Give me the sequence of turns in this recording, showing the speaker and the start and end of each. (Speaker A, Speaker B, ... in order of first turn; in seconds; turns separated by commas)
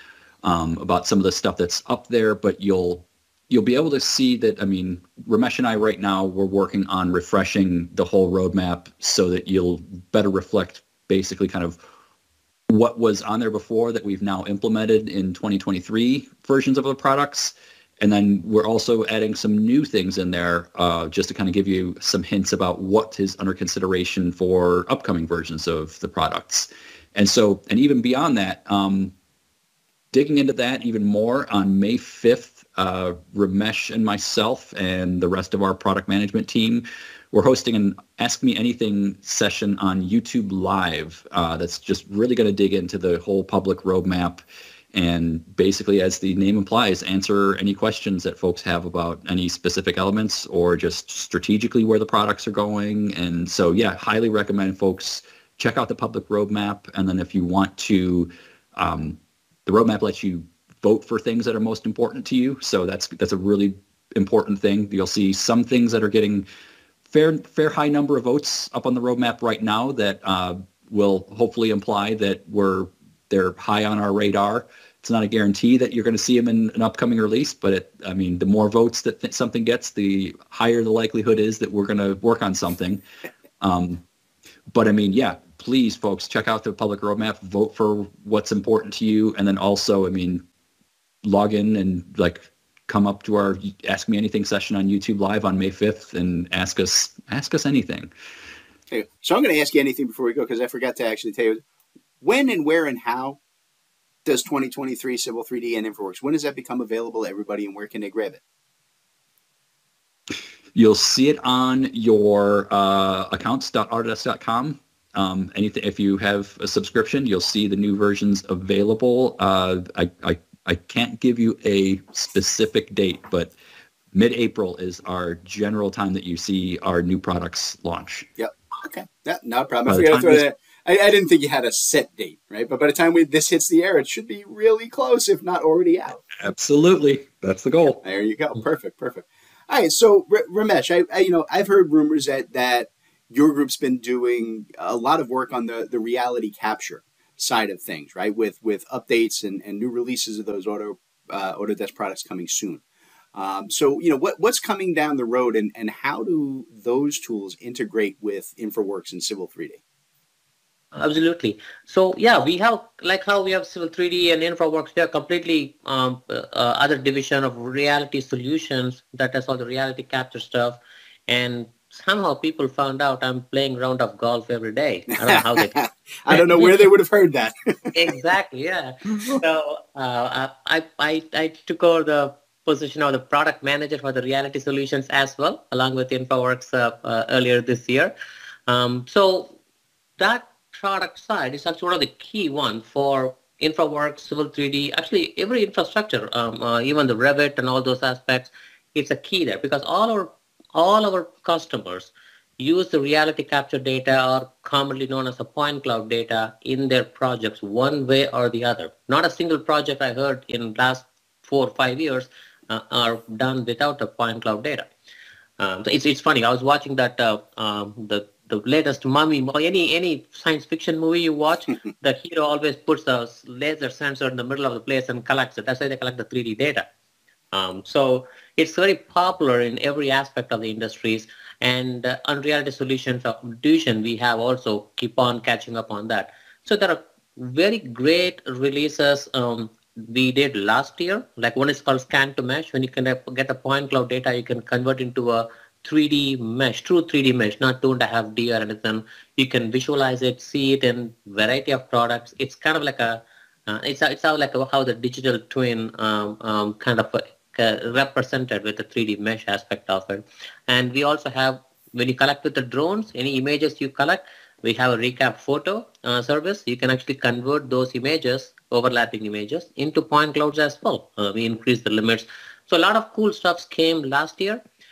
Speaker A: 0.4-11.8, Speaker A: 12.7-29.1, Speaker A: 30.1-44.4, Speaker A: 44.9-66.5, Speaker A: 67.1-83.0, Speaker A: 83.6-84.0, Speaker A: 84.7-90.4, Speaker A: 91.2-98.1, Speaker B: 98.9-101.6, Speaker B: 102.2-103.4, Speaker B: 104.2-108.4, Speaker A: 110.7-123.5, Speaker A: 124.1-128.3, Speaker B: 128.4-136.2, Speaker A: 129.9-130.4, Speaker A: 136.4-138.0, Speaker B: 138.0-152.8, Speaker B: 153.3-159.8, Speaker C: 160.9-175.8, Speaker B: 175.2-177.9, Speaker C: 176.3-176.9, Speaker C: 177.9-188.1, Speaker B: 179.1-179.4, Speaker C: 188.7-189.6, Speaker C: 190.2-214.9, Speaker C: 215.6-226.9, Speaker C: 227.5-274.6